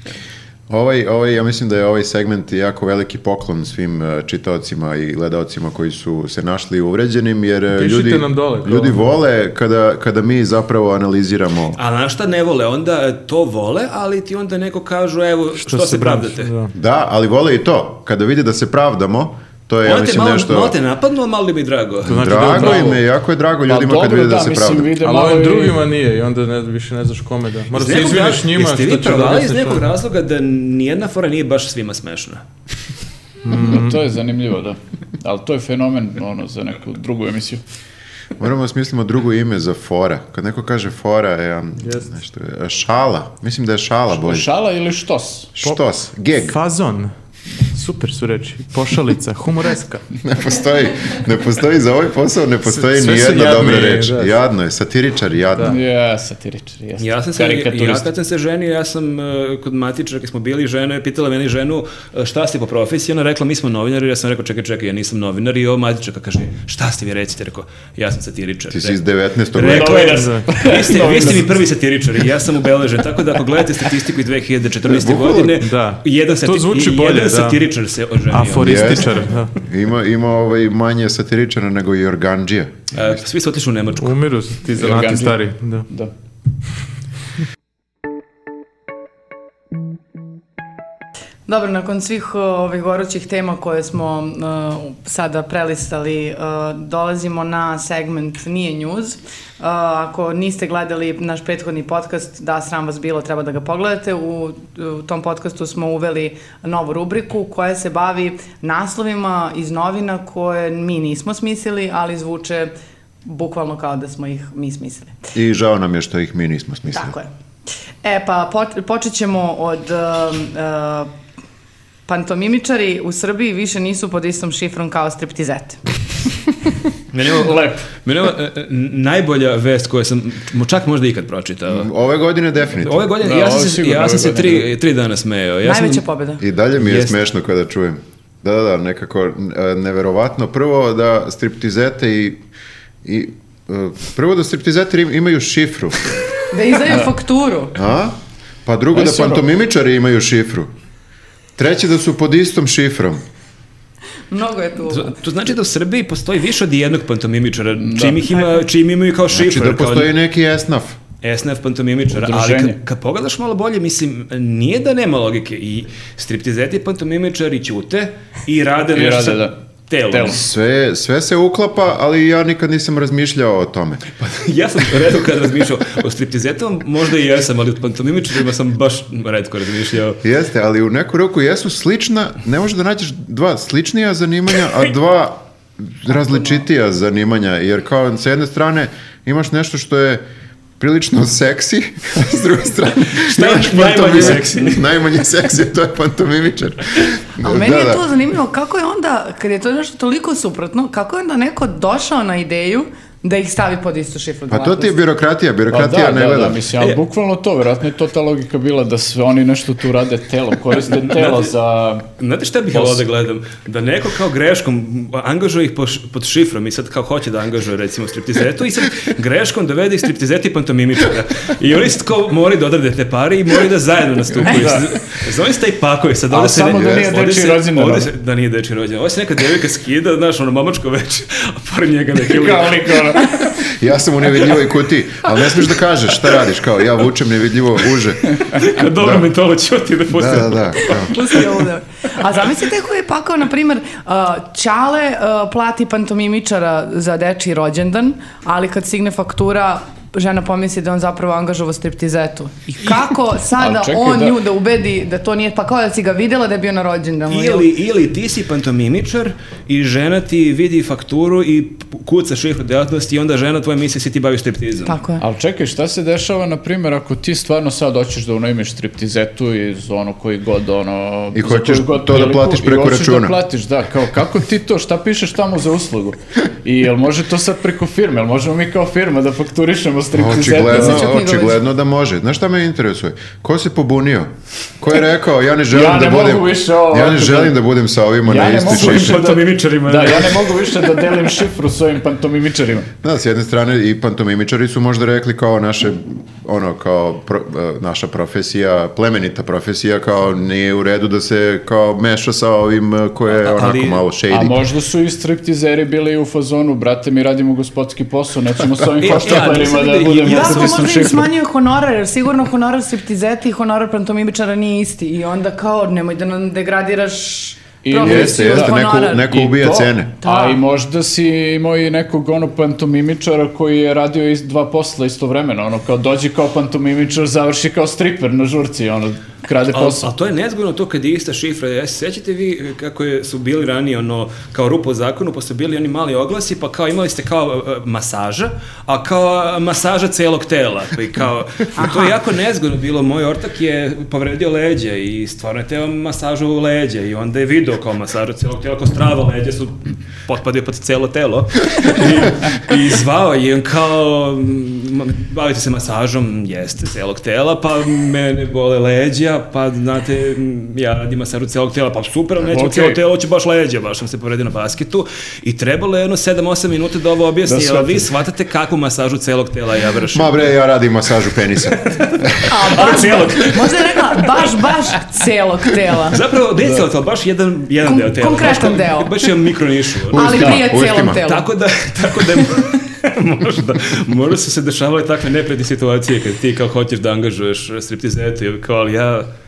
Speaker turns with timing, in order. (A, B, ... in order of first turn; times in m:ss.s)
0:00.7-0:11.8 A
0:07.8-0:09.0 B
0:11.8-0:16.5 C
0:15.6-0:16.7 B
0:16.7-0:20.8 A
0:19.8-0:22.8 C
0:22.0-0:25.0 A
0:22.1-0:23.0 B
0:23.7-0:25.8 D
0:25.0-0:29.8 B
0:27.7-0:32.4 C
0:33.4-0:34.0 B
0:33.5-0:37.6 D
0:38.4-0:44.5 A
0:44.1-0:45.5 D
0:45.6-0:46.6 A
0:46.3-0:47.1 B
0:47.7-0:50.0 B
0:50.2-0:55.8 A
0:52.7-0:54.4 B
0:55.7-0:58.1 D
0:57.0-1:09.0 C
1:08.7-1:10.2 A
1:09.5-1:19.2 C
1:09.6-1:11.6 D
1:10.1-1:10.5 B
1:15.1-1:15.5 A
1:15.4-1:17.6 B
1:18.3-1:19.5 B
1:18.6-1:23.2 A
1:22.9-1:24.2 C
1:24.0-1:25.9 B
1:24.8-1:26.1 D
1:31.5-1:52.7 E
1:53.2-1:55.2 E
1:55.3-1:57.2 A
1:56.9-1:57.3 E
1:58.0-2:01.1 E
2:02.1-2:05.8 E
2:07.1-2:11.9 C
2:07.2-2:07.9 D
2:11.7-2:13.1 A
2:12.8-2:16.0 C
2:13.2-2:14.7 D
2:15.6-2:16.4 E
2:16.4-2:22.4 A
2:16.8-2:17.2 C
2:23.0-2:26.1 A
2:26.5-2:27.8 E
2:27.8-2:30.7 A
2:29.0-2:29.4 D
2:31.6-2:33.2 A
2:34.3-2:35.2 E
2:34.9-2:40.1 C
2:37.8-2:38.2 D
2:39.3-2:41.0 A
2:41.2-2:50.4 C
2:42.1-2:42.8 D
2:48.9-2:49.6 D
2:50.1-2:50.4 D
2:50.3-2:54.0 A
2:54.2-3:00.2 C
3:00.2-3:10.2 A
3:10.8-3:18.1 A
3:13.2-3:14.9 C
3:17.4-3:25.0 E
3:24.5-3:26.6 A
3:25.7-3:32.1 D
3:31.0-3:31.5 C
3:32.2-3:53.3 C
3:32.7-3:33.0 D
3:44.5-3:44.9 D
3:46.3-3:48.1 D
3:52.2-3:53.5 D
3:53.7-3:59.3 A
3:58.4-4:01.5 C
4:00.1-4:01.2 A
4:00.9-4:17.7 E
4:13.6-4:14.4 D
4:17.3-4:25.0 C
4:24.9-4:25.2 E
4:25.2-4:41.2 D
4:31.4-4:33.4 A
4:40.1-4:49.4 A
4:40.8-4:41.5 E
4:45.7-4:47.6 D
4:48.3-4:52.9 D
4:48.7-4:50.6 C
4:53.0-5:04.6 A
5:03.3-5:04.0 C
5:04.3-5:11.3 D
5:09.0-5:11.0 C
5:10.2-5:19.3 E
5:17.8-5:30.1 D
5:18.0-5:20.1 A
5:20.2-5:20.6 E
5:29.7-6:10.5 C
5:41.8-5:42.2 E
6:02.4-6:03.0 D
6:07.5-6:08.1 D
6:10.1-6:11.8 A
6:11.8-6:14.6 C
6:12.5-6:16.2 E
6:16.0-6:20.4 C
6:17.8-6:19.2 E
6:20.1-6:21.2 A
6:20.1-6:21.5 E
6:21.1-6:29.3 C